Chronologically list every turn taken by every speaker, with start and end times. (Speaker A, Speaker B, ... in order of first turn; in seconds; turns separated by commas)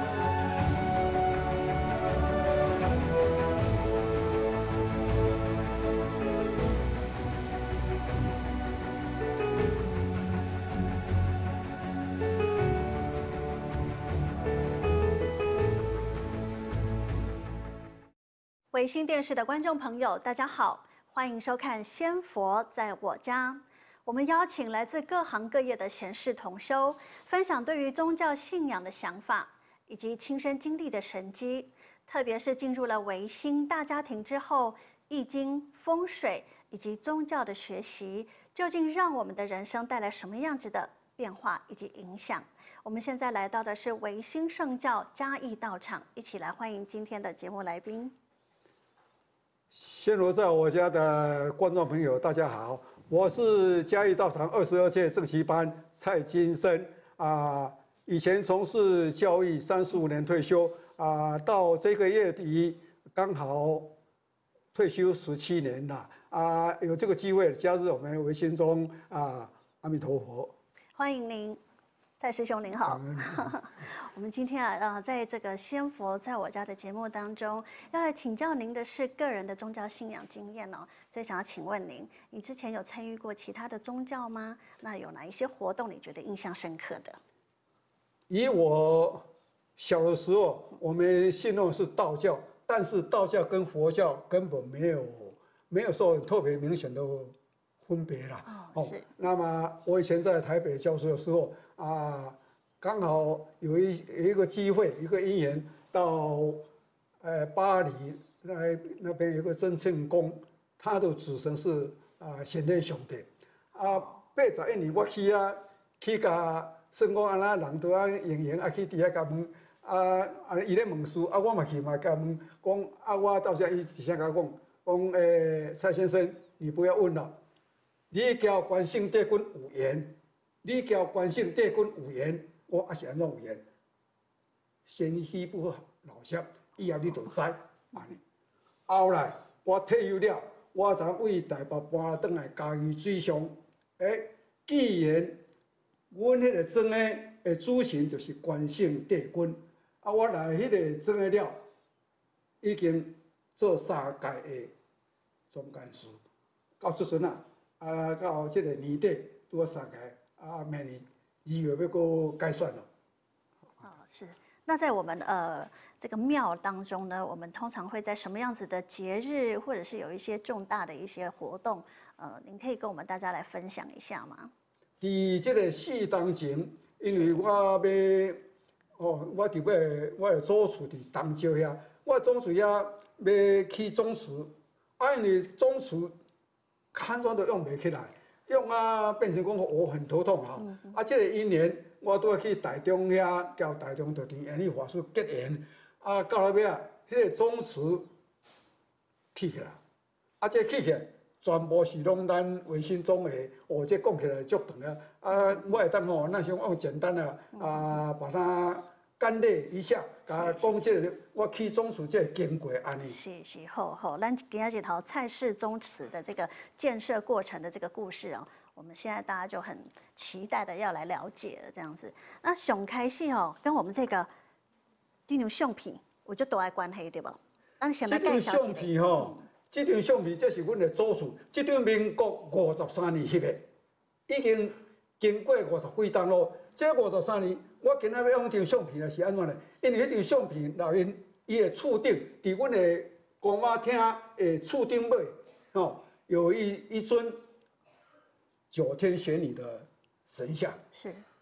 Speaker A: 18.7-48.1, Speaker B: 49.7-63.9, Speaker B: 64.7-70.5, Speaker A: 71.0-71.6, Speaker A: 72.2-87.2, Speaker B: 72.9-73.6, Speaker B: 88.3-89.2, Speaker B: 89.8-106.6, Speaker A: 98.5-99.0, Speaker B: 107.2-127.3, Speaker B: 128.1-133.6, Speaker B: 134.8-138.2, Speaker B: 138.9-145.4, Speaker B: 146.1-151.6, Speaker B: 152.6-154.7, Speaker B: 155.5-156.2, Speaker B: 156.8-162.8, Speaker A: 163.8-174.5, Speaker B: 175.0-178.4, Speaker A: 177.1-177.4, Speaker B: 179.0-186.1, Speaker B: 186.9-198.1, Speaker B: 199.3-199.8, Speaker B: 200.4-213.2, Speaker A: 210.3-210.8, Speaker A: 213.1-224.3, Speaker A: 225.3-229.4, Speaker B: 228.1-233.7, Speaker B: 234.3-247.4, Speaker B: 248.7-250.8, Speaker A: 250.9-251.2